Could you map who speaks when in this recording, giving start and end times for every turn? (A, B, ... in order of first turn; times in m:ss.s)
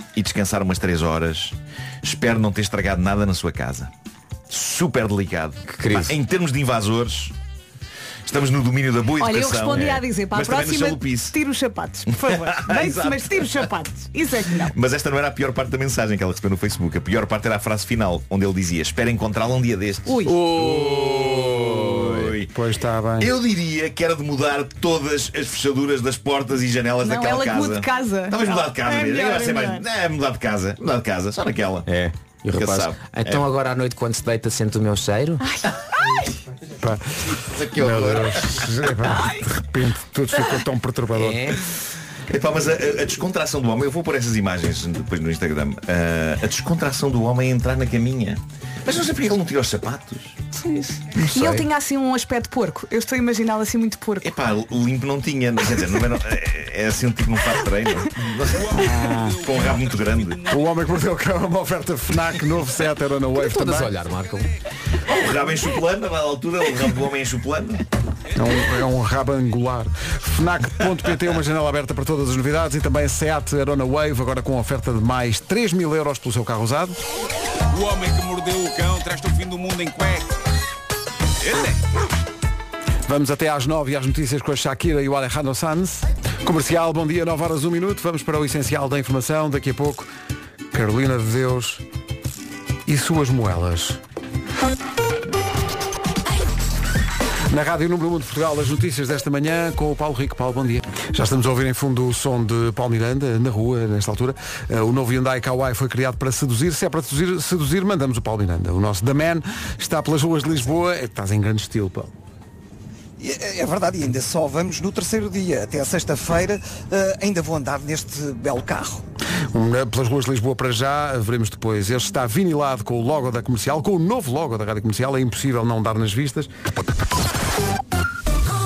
0:00.1-0:03.9 A
0:04.5-0:07.3 A
0:05.7-0:06.2 B
0:08.2-0:11.4 A
0:09.2-0:14.7 C
0:09.7-0:10.0 B
0:12.1-0:13.7 A
0:14.6-0:22.5 A
0:20.1-0:20.3 C
0:20.2-0:22.3 B
0:22.5-0:23.3 D
0:23.2-0:31.8 A
0:27.0-0:29.8 C
0:31.9-0:35.4 B
0:32.5-0:33.4 A
0:35.4-0:36.2 C
0:36.8-0:37.2 D
0:37.4-0:38.6 A
0:37.7-0:41.6 D
0:41.2-0:41.6 B
0:42.3-0:50.4 A
0:50.7-0:54.3 C
0:54.2-0:58.8 A
0:58.5-1:00.6 E
0:58.9-0:59.4 D
0:59.4-1:00.4 A
1:00.5-1:03.9 D
1:03.3-1:04.5 B
1:05.0-1:07.8 A
1:08.4-1:17.0 D
1:17.7-1:20.3 E
1:21.4-1:21.8 E
1:23.1-1:30.1 D
1:30.7-1:31.8 D
1:32.8-1:34.0 D
1:37.5-1:52.1 D
1:53.2-1:59.0 F
1:59.5-2:06.5 D